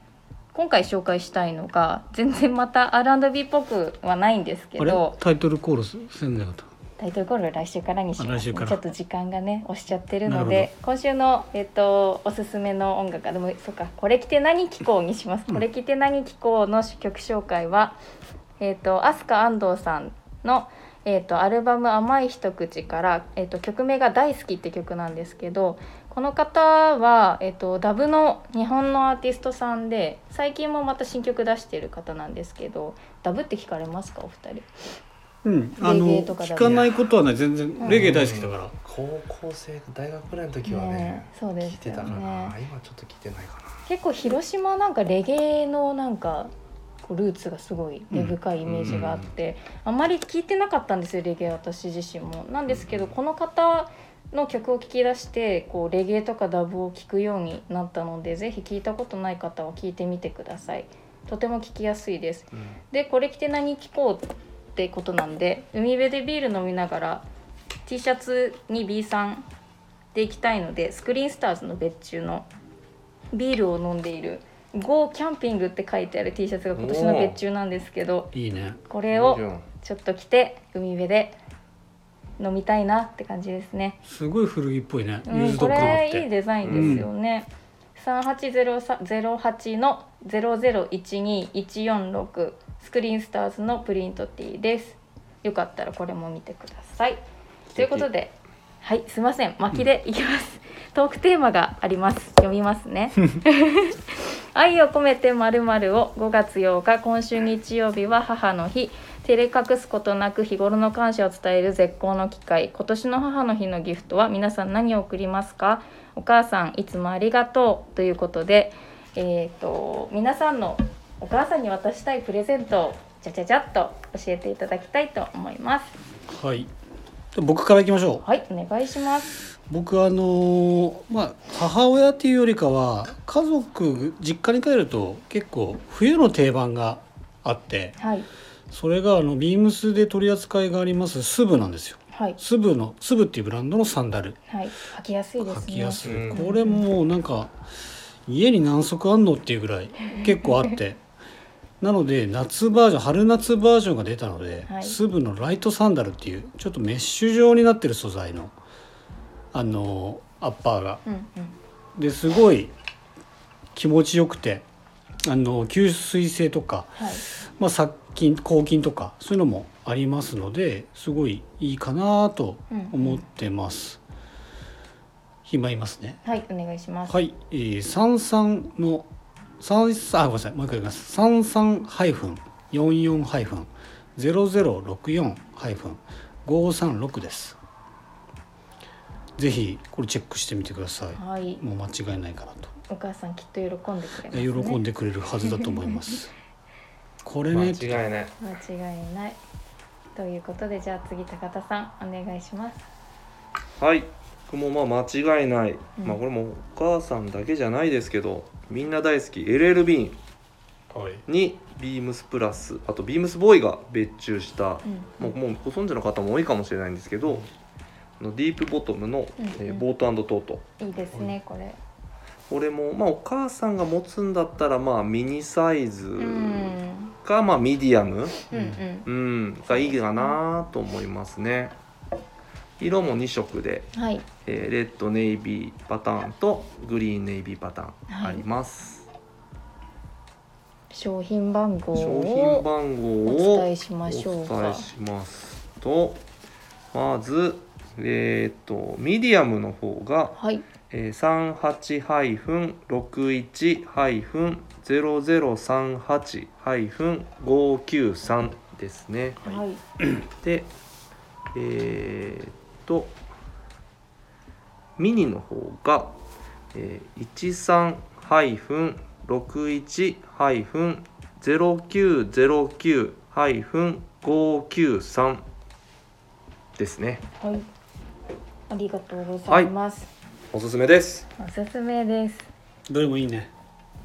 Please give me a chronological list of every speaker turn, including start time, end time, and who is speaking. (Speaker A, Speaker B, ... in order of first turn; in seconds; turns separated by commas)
Speaker A: 0.5-5.2, Speaker B: 4.8-6.7, Speaker A: 7.0-18.0, Speaker B: 8.2-8.8, Speaker B: 10.2-10.7, Speaker A: 18.6-34.7, Speaker B: 35.4-38.8, Speaker A: 35.8-37.0, Speaker A: 37.8-38.0, Speaker C: 37.9-43.9, Speaker A: 40.7-42.6, Speaker A: 43.9-67.2, Speaker C: 48.6-49.3, Speaker C: 52.7-53.1, Speaker C: 62.5-62.8, Speaker A: 67.9-69.5, Speaker A: 70.1-72.5, Speaker A: 73.3-78.3, Speaker C: 76.7-77.4, Speaker B: 78.3-78.8, Speaker A: 78.9-81.4, Speaker C: 79.1-79.7, Speaker A: 82.4-84.0, Speaker B: 84.1-87.1, Speaker A: 85.3-97.2, Speaker C: 86.6-87.1, Speaker C: 97.7-98.1, Speaker A: 97.8-125.9, Speaker B: 126.3-126.7, Speaker B: 127.3-128.2, Speaker A: 128.2-129.4, Speaker B: 129.7-138.0, Speaker A: 138.0-138.3, Speaker B: 138.7-144.4, Speaker A: 144.5-146.8, Speaker B: 145.4-147.6, Speaker C: 146.0-146.4, Speaker B: 148.3-151.0, Speaker B: 151.8-158.6, Speaker A: 154.7-155.0, Speaker B: 159.5-161.0, Speaker A: 161.1-161.6, Speaker B: 162.0-162.7, Speaker B: 163.8-164.6, Speaker B: 165.2-174.0, Speaker A: 166.9-167.2, Speaker A: 172.7-173.2, Speaker B: 175.4-176.2, Speaker A: 176.2-177.2, Speaker B: 177.1-179.1, Speaker B: 179.6-187.6, Speaker B: 189.4-192.7, Speaker A: 191.2-191.6, Speaker A: 192.9-194.8, Speaker B: 194.3-196.3, Speaker B: 197.2-198.0, Speaker C: 197.5-198.4, Speaker A: 198.4-199.4, Speaker A: 200.2-202.9, Speaker C: 203.8-210.2, Speaker B: 210.9-211.2, Speaker C: 211.3-217.5, Speaker A: 214.8-215.3, Speaker C: 218.2-220.7, Speaker A: 219.4-219.8, Speaker A: 220.8-221.8, Speaker C: 222.5-228.4, Speaker A: 226.2-227.2, Speaker A: 228.5-229.1, Speaker B: 228.5-228.8, Speaker C: 229.1-231.7, Speaker A: 229.7-230.4, Speaker C: 232.8-233.9, Speaker A: 233.9-234.2, Speaker C: 234.4-239.1, Speaker A: 238.1-238.4, Speaker A: 240.9-242.7, Speaker C: 241.9-246.2, Speaker A: 243.2-244.9, Speaker C: 246.9-250.4, Speaker A: 250.4-250.7, Speaker C: 250.9-259.6, Speaker A: 259.4-259.8, Speaker C: 260.2-260.7, Speaker C: 261.5-263.2, Speaker C: 265.0-266.1, Speaker C: 266.7-275.4, Speaker C: 276.8-277.2, Speaker A: 277.4-277.7, Speaker A: 278.7-280.1, Speaker C: 279.5-279.7, Speaker C: 280.5-281.3, Speaker A: 281.4-282.5, Speaker B: 282.9-283.5